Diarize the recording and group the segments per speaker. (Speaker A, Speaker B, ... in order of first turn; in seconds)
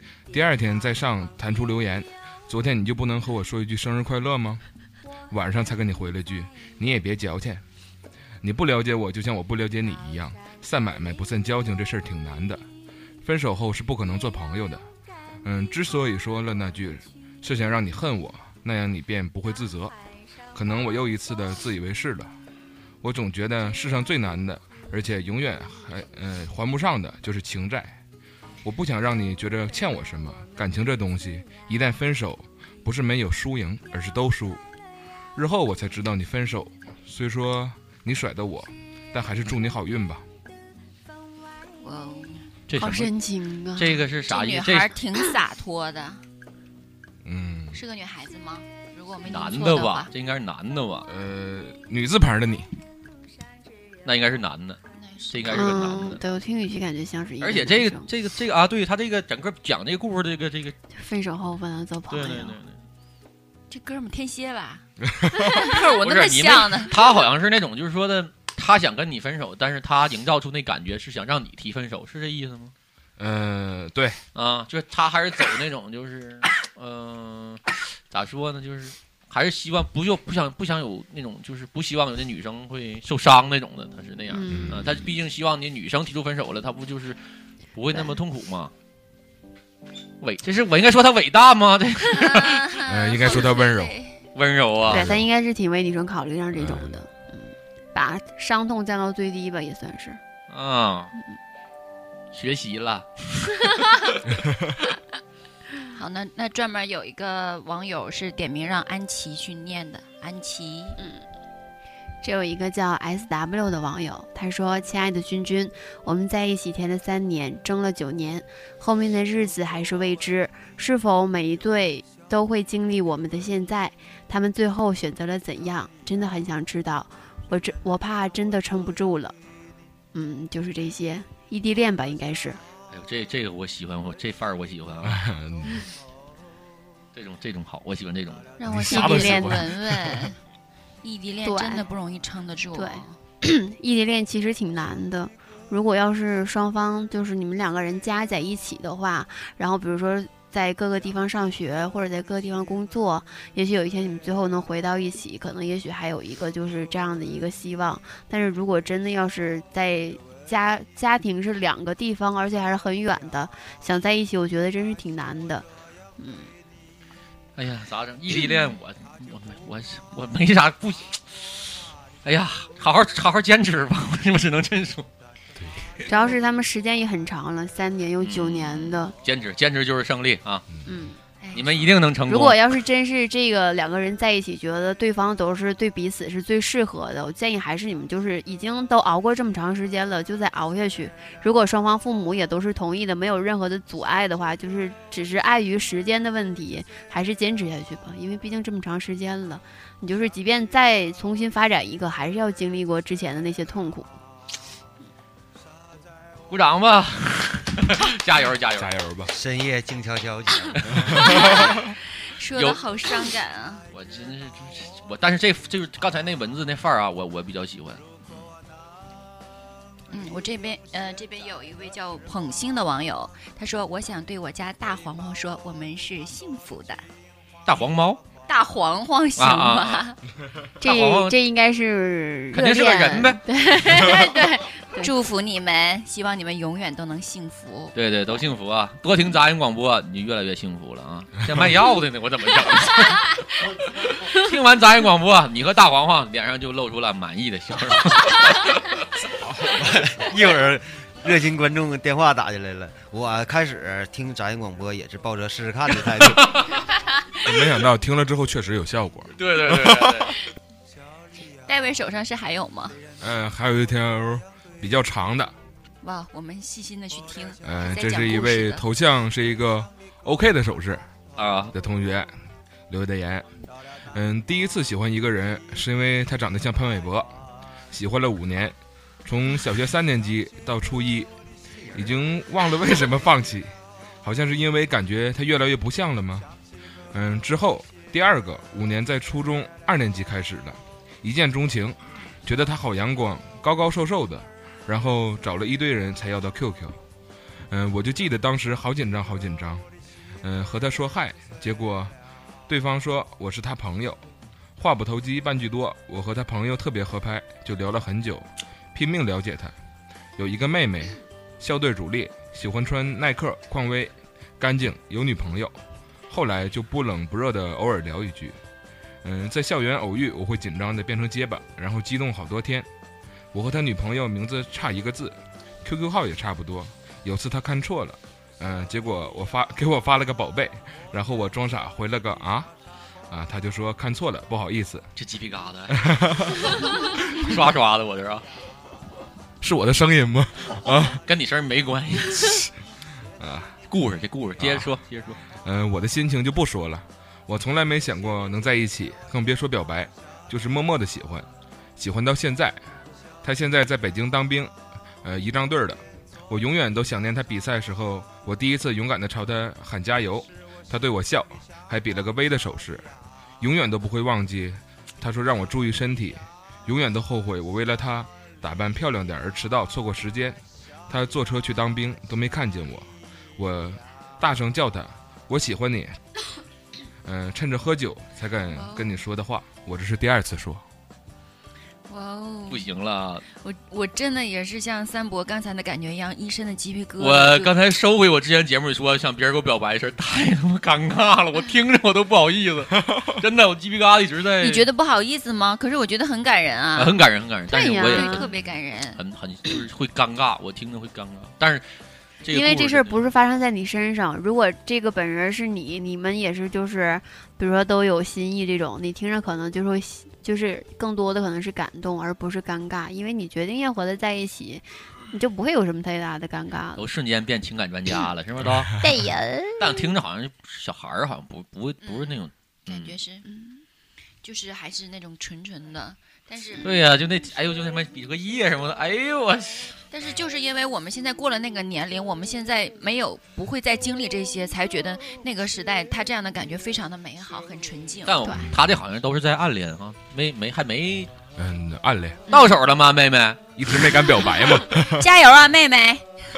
Speaker A: 0.3-4.6, 5.3-7.6, 8.4-12.6, 13.2-14.8, 15.4-19.9, 20.5-22.3, 23.0-28.0, 28.6-34.6, 35.4-40.2, 47.2-47.8, 51.1-52.7, 65.0-65.6, 73.2-74.2, 84.5-85.1, 92.8-94.0, 94.9-95.3, 96.6-97.0, 135.0-135.9, 138.6-140.3, 175.6-175.9, 208.8-209.3, 210.9-211.8, 257.4-260.3, 263.2-265.5, 267.6-271.0, 271.7-272.3, 272.9-273.5, 274.1-277.3, 277.9-281.3, 281.9-283.7, 284.2-286.5, 287.1-297.0, 297.7-299.9, 300.4-302.1, 302.7-304.2, 304.8-309.7, 310.4-315.8, 316.3-318.6, 319.2-322.9, 323.5-332.7, 333.3-335.1, 335.9-336.7, 339.6-341.2, 342.4-342.7, 343.4-343.8, 344.6-344.9, 345.6-352.8, 353.4-363.1, 363.6-370.6, 371.1-373.1, 373.6-376.2, 377.2-380.8, 392.9-393.4, 438.6-438.8, 441.6-442.4, 443.8-445.3
Speaker B: 41.8-42.5, 44.3-46.2, 47.7-50.1, 55.0-55.8, 63.7-64.8, 65.3-67.0, 92.1-94.2, 105.9-111.0, 138.6-140.4, 141.0-143.2, 181.4-181.9, 211.3-211.8, 212.3-213.8, 220.1-227.0, 228.5-230.2, 233.9-237.9, 261.7-263.0, 266.0-268.8, 378.8-379.1, 382.1-382.9, 383.6-387.8, 394.6-397.2, 398.0-399.2, 422.0-423.5, 424.4-427.0, 430.1-438.5, 445.0-446.3
Speaker C: 42.7-43.1, 43.8-44.9, 49.2-51.1, 54.0-56.2, 57.4-60.8, 62.1-62.9, 65.6-72.7, 74.3-87.2, 87.8-88.7, 90.2-92.7, 94.3-95.1, 100.5-101.1, 102.3-103.1, 132.9-135.2, 137.1-138.5, 167.6-175.1, 178.2-180.7, 181.5-182.6, 206.5-208.9, 213.9-218.5, 227.7-228.2, 229.4-230.1, 230.8-231.4, 232.5-233.4, 237.9-248.8, 256.3-256.7, 259.4-260.3, 271.4-271.8, 335.2-336.0, 337.4-338.4, 341.3-342.5, 343.9-345.4, 382.7-383.4, 387.2-394.9, 397.0-401.9, 402.4-403.2, 417.0-419.0, 419.8-423.2, 426.8-430.0, 438.3-441.3, 442.5-443.6
Speaker D: 42.8-44.1, 55.5-58.1, 61.0-62.6, 84.3-84.8, 94.9-100.2, 111.0-111.2, 112.2-129.3, 130.1-132.6, 138.8-139.6, 141.4-141.8, 142.8-165.7, 166.2-166.5, 176.1-179.2, 180.9-181.2, 182.3-204.1, 230.8-235.1, 397.7-398.5, 402.5-417.0, 419.0-420.0
Speaker E: 209.3-211.2, 249.8-256.5